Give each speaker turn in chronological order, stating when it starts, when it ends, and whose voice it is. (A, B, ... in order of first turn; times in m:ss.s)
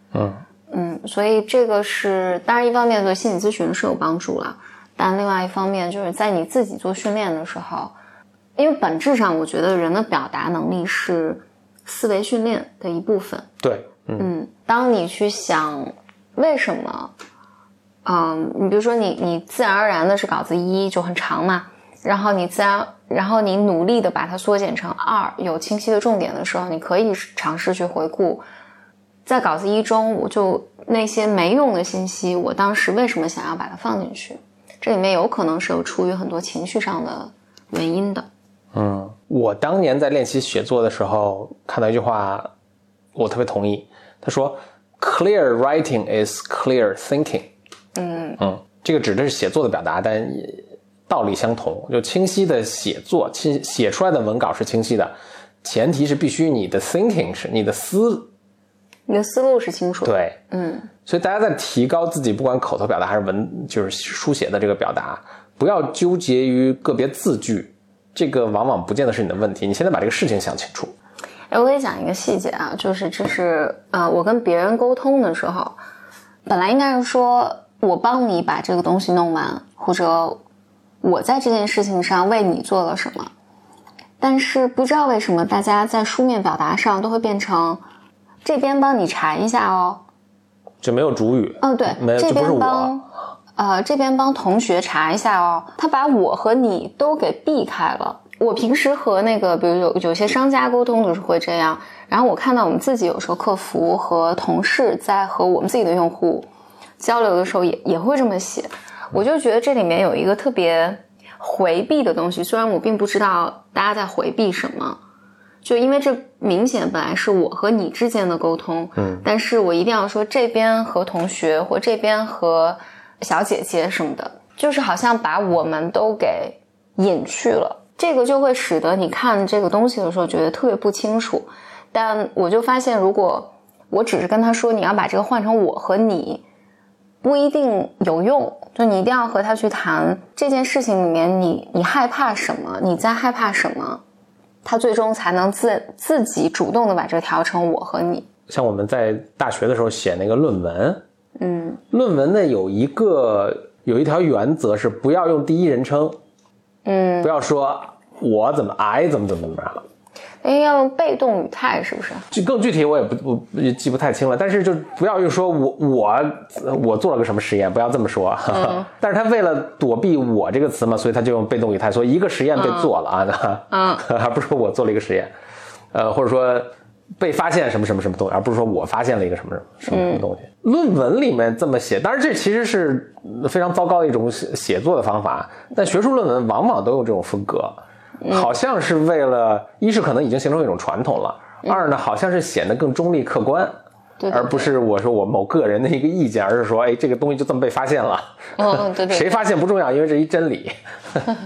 0:00.1-0:00.4 A
0:00.7-0:08.0 B
0:08.6-0:13.5 B
0:13.6-0:14.3 A
0:14.2-0:17.1 B
0:18.0-0:28.4 B
0:29.2-0:38.3 B
0:38.7-0:42.5 A
0:43.1-0:47.5 A
0:48.0-0:48.4 B
0:48.4-0:58.3 A
0:59.1-1:00.9 B
1:00.0-1:00.4 A
1:01.0-1:10.9 A
1:11.5-1:15.8 B
1:16.4-1:20.4 B
1:21.0-1:23.3 B
1:24.2-1:27.8 B
1:28.4-1:30.0 B
1:30.8-1:32.9 A
1:31.6-1:46.5 B
1:47.0-1:55.0 B
1:55.6-2:16.4 B
1:59.0-1:59.2 A
2:17.2-2:24.0 B
2:24.6-2:28.3 B
2:28.5-2:31.0 A
2:31.4-2:31.8 B
2:31.9-2:36.2 A
2:36.8-2:37.3 B
2:37.2-2:39.8 A
2:40.4-2:42.3 B
2:42.3-2:55.3 A
2:48.5-2:48.9 B
2:52.5-2:52.9 B
2:53.7-2:54.0 B
2:55.9-3:13.7 A
2:59.9-3:00.2 B
3:08.2-3:08.5 B
3:14.2-3:14.7 B
3:14.3-3:21.3 A
3:18.6-3:19.4 B